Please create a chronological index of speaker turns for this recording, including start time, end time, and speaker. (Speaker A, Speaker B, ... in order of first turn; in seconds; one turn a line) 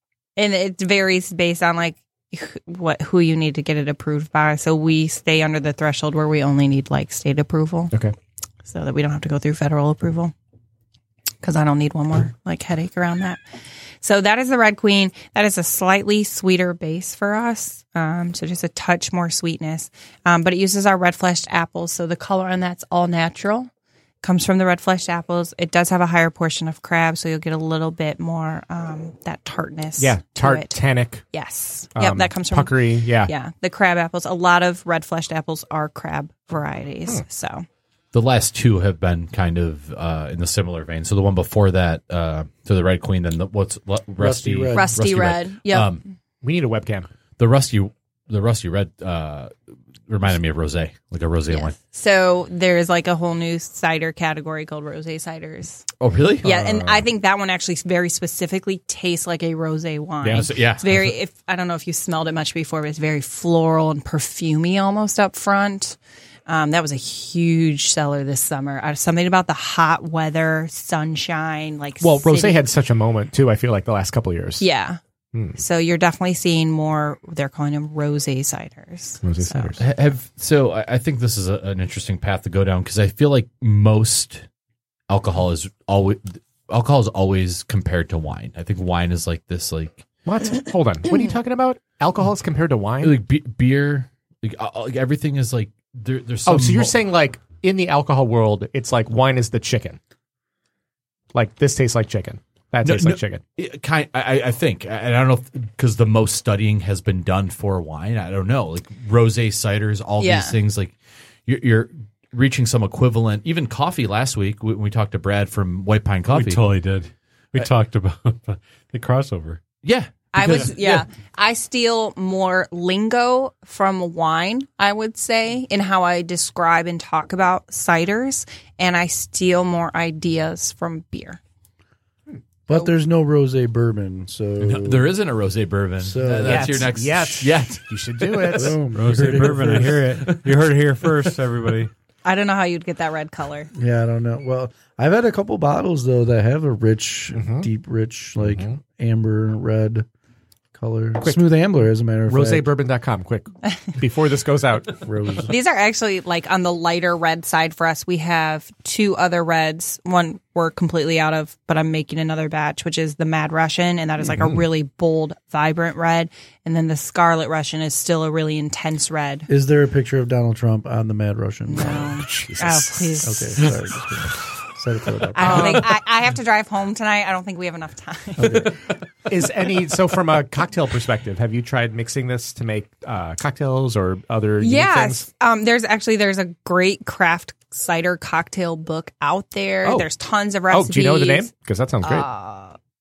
Speaker A: 0.4-7.9
Speaker A: 8.7-10.3
Speaker A: 11.4-13.4
Speaker A: 14.0-23.7
Speaker A: 24.2-30.8
Speaker B: 30.0-31.3
Speaker A: 31.3-37.7
Speaker B: 31.9-33.3
Speaker C: 38.1-46.0
Speaker D: 44.2-45.0
Speaker A: 44.7-46.0
Speaker B: 46.4-47.1
Speaker C: 47.4-49.5
Speaker C: 50.1-51.8
Speaker A: 51.5-55.9
Speaker C: 56.0-56.5
Speaker A: 56.4-72.6
Speaker B: 56.4-57.1
Speaker B: 60.2-60.5
Speaker C: 60.3-61.1
Speaker B: 72.0-74.7
Speaker A: 74.6-75.0
Speaker B: 75.3-75.6
Speaker A: 75.6-79.8
Speaker B: 79.2-79.8
Speaker C: 79.8-84.5
Speaker C: 85.1-90.1
Speaker B: 90.3-93.2
Speaker C: 93.0-97.0
Speaker B: 96.5-100.0
Speaker B: 101.3-103.4
Speaker C: 102.8-116.6
Speaker A: 110.2-110.6
Speaker E: 116.3-119.6
Speaker C: 119.8-121.1
Speaker A: 120.3-131.4
Speaker D: 132.7-135.1
Speaker C: 134.6-138.7
Speaker D: 136.0-136.8
Speaker B: 136.4-138.8
Speaker D: 138.5-140.3
Speaker E: 138.9-141.9
Speaker C: 139.4-139.7
Speaker A: 142.2-143.7
Speaker D: 143.8-150.1
Speaker B: 147.3-147.7
Speaker B: 148.4-148.8
Speaker D: 150.7-152.7
Speaker B: 152.3-155.0
Speaker D: 155.0-155.5
Speaker A: 155.5-169.5
Speaker D: 169.5-172.1
Speaker A: 171.7-173.7
Speaker B: 172.2-173.3
Speaker D: 173.2-175.9
Speaker A: 175.3-178.7
Speaker B: 175.4-175.9
Speaker D: 178.4-178.8
Speaker B: 179.3-185.3
Speaker A: 184.6-191.5
Speaker B: 189.8-190.1
Speaker B: 190.7-192.3
Speaker A: 192.0-192.8